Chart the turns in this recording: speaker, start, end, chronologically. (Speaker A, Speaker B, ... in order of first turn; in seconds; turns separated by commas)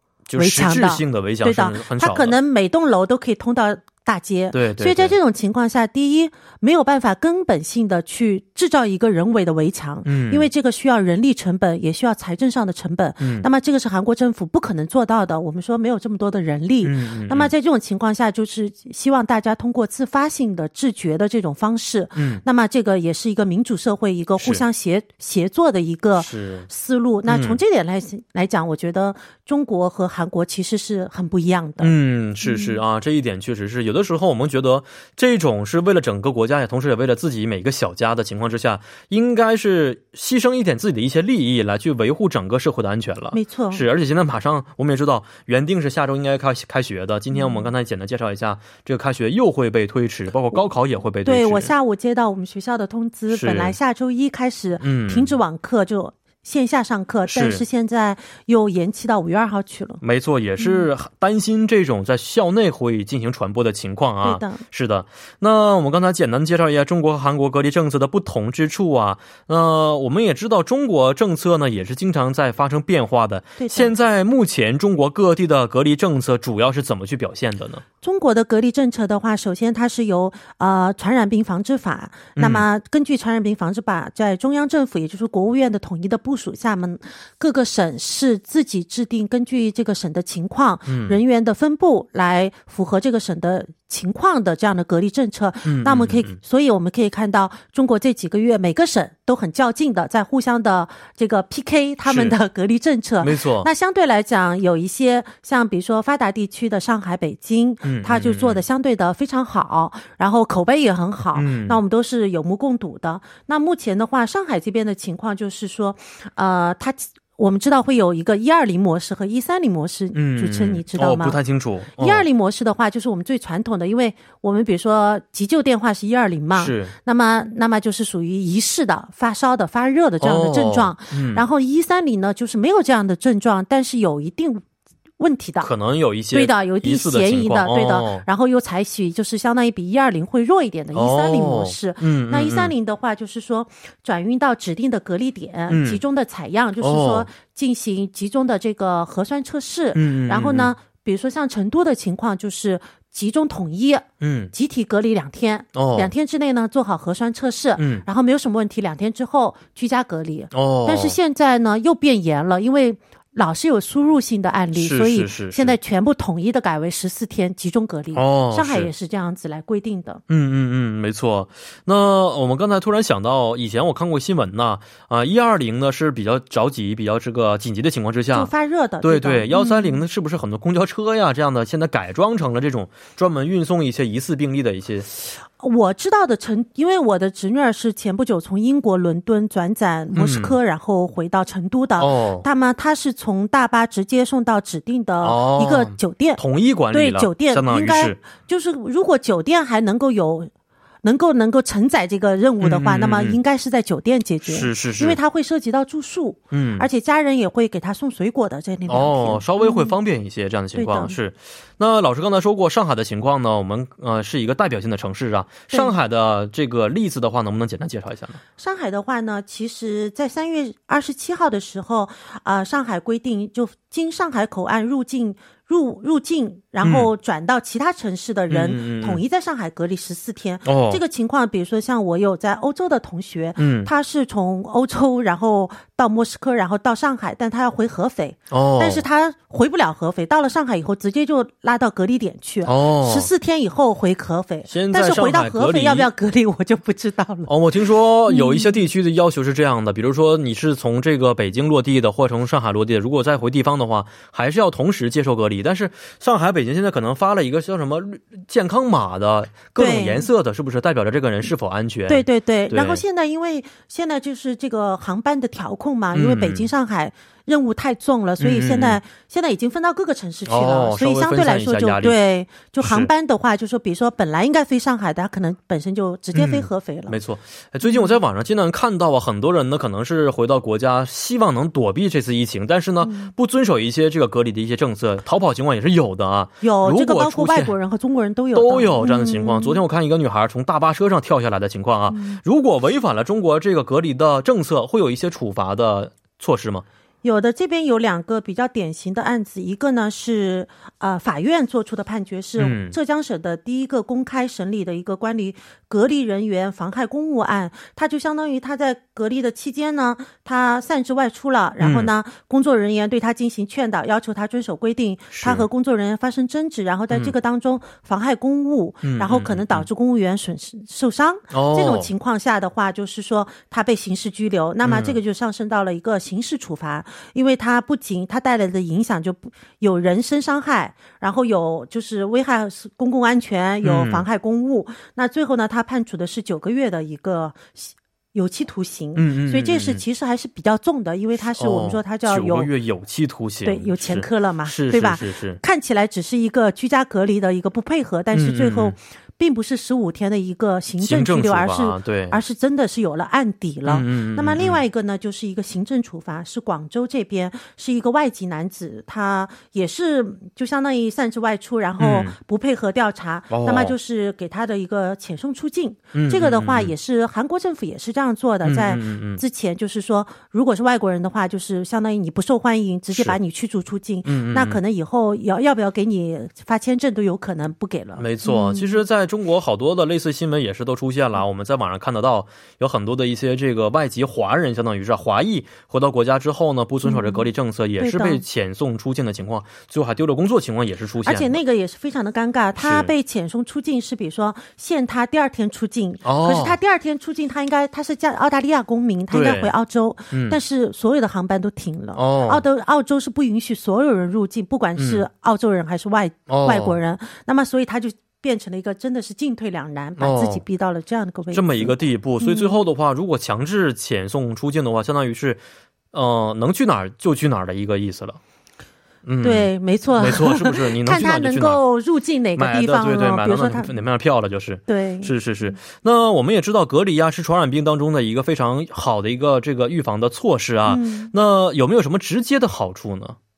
Speaker A: 0.3-2.4, Speaker B: 0.3-32.8, Speaker A: 4.5-5.2, Speaker A: 10.0-10.5, Speaker A: 13.2-13.5, Speaker A: 16.8-17.5, Speaker A: 22.1-22.4, Speaker A: 24.4-24.6, Speaker A: 26.2-26.7, Speaker A: 27.3-27.6, Speaker A: 31.8-51.7, Speaker B: 43.3-43.8, Speaker B: 47.3-47.7, Speaker B: 51.2-60.0, Speaker A: 53.3-53.8, Speaker A: 54.8-55.3, Speaker A: 57.3-57.6, Speaker A: 60.0-77.8, Speaker B: 60.6-60.9, Speaker B: 64.2-64.6, Speaker B: 73.6-73.9, Speaker B: 78.0-121.4, Speaker A: 82.3-82.6, Speaker A: 90.9-91.2, Speaker A: 95.6-96.4, Speaker A: 102.0-102.3, Speaker A: 103.2-103.7, Speaker A: 107.8-108.6, Speaker A: 111.3-111.8, Speaker A: 120.1-122.2, Speaker B: 122.0-134.6, Speaker A: 126.5-126.9, Speaker A: 130.2-131.4, Speaker B: 135.2-135.7, Speaker A: 135.6-138.2, Speaker B: 136.3-170.2, Speaker A: 140.9-142.7, Speaker A: 145.7-146.0, Speaker A: 146.8-147.3, Speaker A: 149.9-150.7, Speaker A: 154.2-154.5, Speaker A: 155.7-156.1, Speaker A: 157.8-158.0, Speaker A: 160.5-161.2, Speaker A: 164.7-165.8, Speaker A: 168.1-168.9, Speaker A: 170.3-178.5, Speaker B: 178.3-180.0, Speaker A: 179.0-185.1, Speaker B: 185.6-200.5, Speaker A: 190.1-190.5, Speaker A: 192.0-192.4, Speaker A: 195.2-198.2, Speaker B: 201.0-209.9, Speaker A: 202.6-203.4, Speaker A: 204.4-205.2, Speaker A: 206.5-206.9, Speaker A: 208.9-218.4, Speaker B: 210.7-211.1, Speaker B: 218.6-247.5, Speaker A: 226.8-227.1, Speaker A: 228.5-229.2, Speaker A: 230.6-231.0, Speaker A: 233.6-233.9, Speaker A: 238.5-239.0, Speaker A: 242.6-243.3, Speaker A: 244.7-246.1, Speaker A: 247.5-263.0, Speaker B: 248.3-248.8, Speaker B: 259.8-260.3, Speaker B: 262.1-277.1, Speaker A: 266.1-266.7, Speaker A: 268.4-269.0, Speaker A: 270.5-272.2, Speaker A: 272.8-273.1, Speaker A: 276.3-287.7, Speaker B: 277.8-278.1, Speaker B: 283.0-283.3, Speaker B: 286.6-289.8, Speaker A: 288.5-296.8, Speaker B: 292.1-292.4, Speaker B: 297.2-342.7, Speaker A: 302.6-302.9, Speaker A: 311.8-312.1, Speaker A: 315.3-315.6, Speaker A: 319.0-319.9, Speaker A: 321.5-322.1, Speaker A: 324.8-325.2, Speaker A: 333.8-334.2, Speaker A: 339.1-340.0, Speaker A: 341.6-345.6, Speaker B: 343.6-379.0, Speaker A: 348.3-348.9, Speaker A: 351.0-352.4, Speaker A: 353.9-354.8, Speaker A: 362.0-362.4, Speaker A: 363.5-363.9, Speaker A: 366.1-366.9, Speaker A: 368.6-369.4, Speaker A: 374.2-374.8, Speaker A: 378.2-391.6, Speaker B: 387.0-387.4, Speaker B: 388.0-388.4, Speaker B: 391.2-412.7, Speaker A: 392.8-393.1, Speaker A: 396.2-396.8, Speaker A: 399.3-399.7, Speaker A: 400.3-400.6, Speaker A: 402.1-402.6, Speaker A: 405.0-405.2, Speaker A: 406.5-407.0, Speaker A: 410.2-410.6, Speaker A: 411.5-415.6, Speaker A: 416.1-418.4, Speaker A: 419.2-421.8, Speaker B: 419.4-423.9, Speaker A: 422.6-433.4, Speaker B: 424.9-425.8, Speaker B: 430.9-431.3